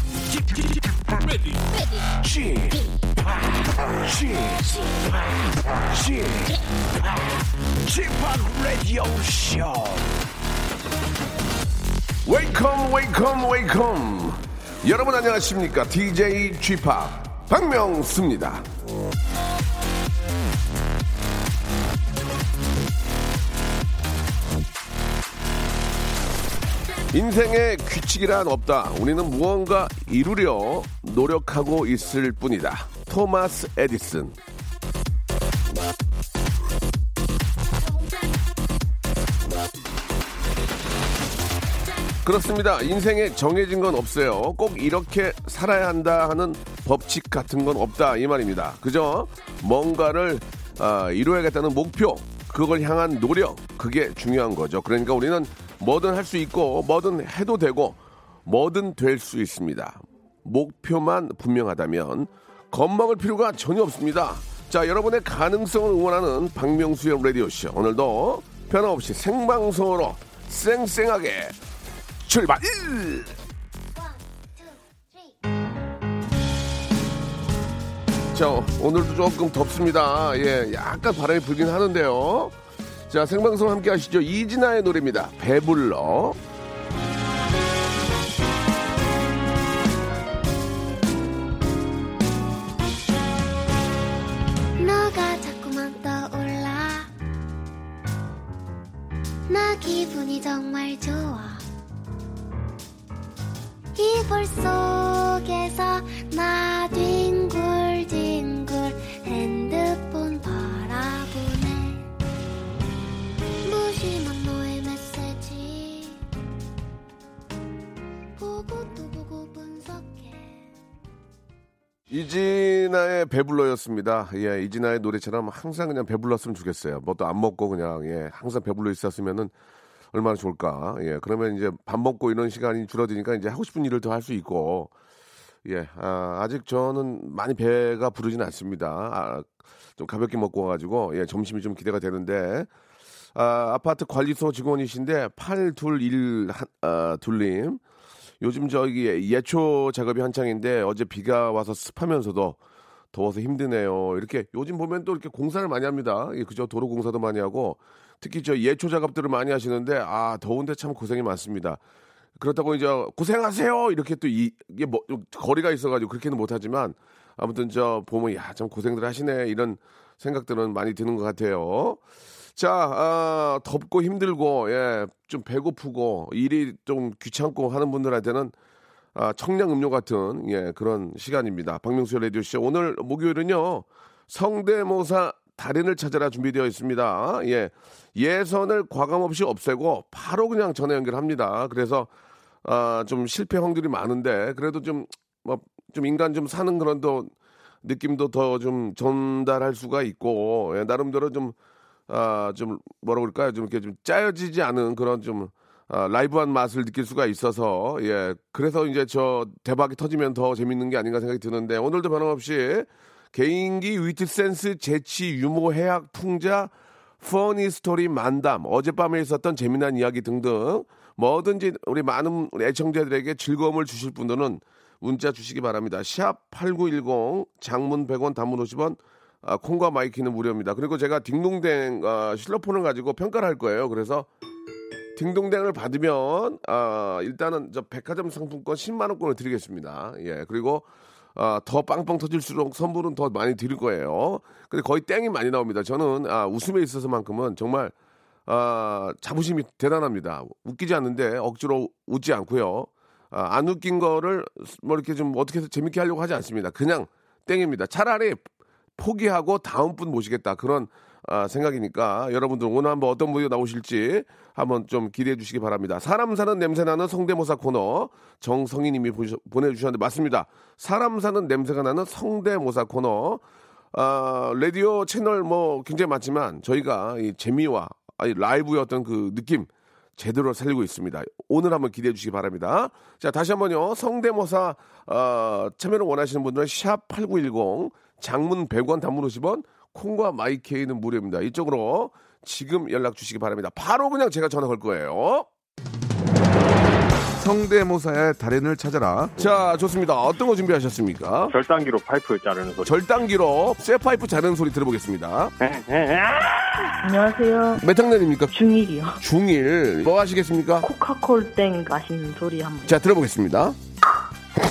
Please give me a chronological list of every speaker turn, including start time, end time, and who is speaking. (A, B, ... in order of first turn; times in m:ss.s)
0:00.3-0:01.6 A
0:02.2-0:10.2 A
0:12.2-0:18.6 B
0:27.1-0:34.4 B
0:42.2-1:11.6 B
1:12.2-1:13.4 B
1:14.0-1:15.3 C
1:18.3-1:22.5 B
1:23.1-1:26.4 B
1:34.8-1:37.1 C
1:39.5-1:41.6 C
1:44.0-1:52.1 C
1:53.6-1:56.2 C
1:58.4-2:00.7 C
2:02.1-2:09.5 B
2:10.1-2:14.9 B
2:15.6-2:22.7 B
2:23.4-2:27.8 B
2:28.4-2:32.6 B
2:33.1-2:41.8 B
2:42.4-2:52.0 B
2:52.6-2:58.5 B
2:59.2-3:12.1 B
3:12.6-3:17.3 B
3:17.8-3:21.6 B
3:22.1-3:54.3 B
3:55.2-4:07.9 B
4:08.5-4:18.4 B
4:19.0-4:55.5 B
4:57.4-5:01.6 B
5:01.5-5:03.0 D
5:02.8-5:05.5 B
5:05.6-5:06.1 D
5:07.0-5:07.8 E
5:07.8-5:08.5 B
5:08.5-5:09.2 E
5:09.2-5:10.9 B
5:10.8-5:13.0 E
5:12.9-5:13.8 B